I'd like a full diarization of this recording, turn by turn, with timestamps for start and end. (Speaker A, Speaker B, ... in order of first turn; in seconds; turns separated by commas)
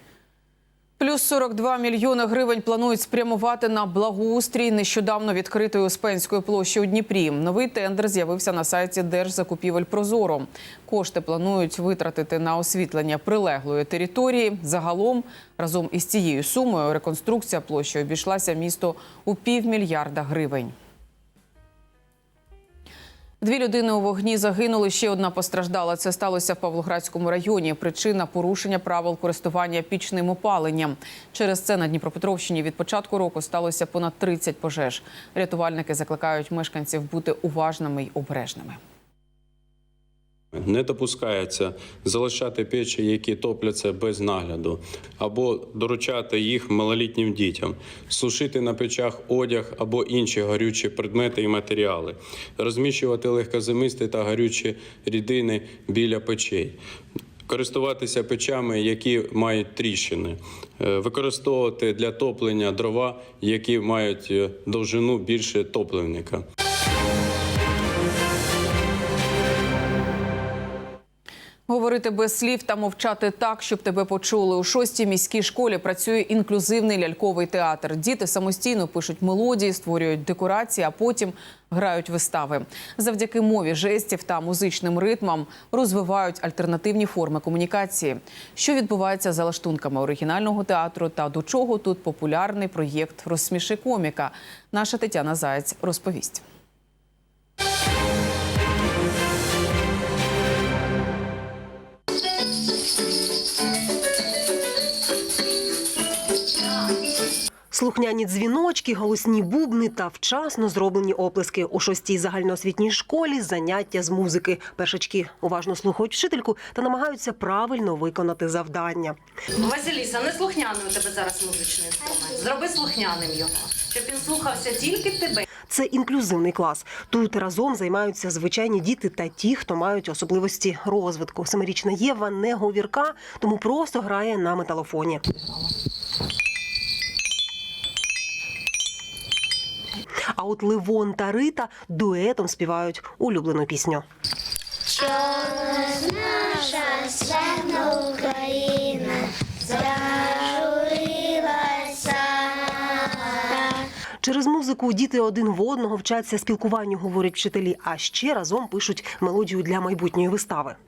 Speaker A: 1.0-20.7, Speaker A: 23.4-38.8, Speaker B: 40.5-56.8, Speaker B: 57.5-66.4, Speaker A: 71.7-96.4, Speaker C: 107.7-119.2, Speaker D: 119.6-125.2, Speaker C: 125.7-135.2, Speaker C: 140.3-144.1, Speaker E: 144.9-152.7, Speaker E: 153.5-153.8, Speaker C: 154.2-160.8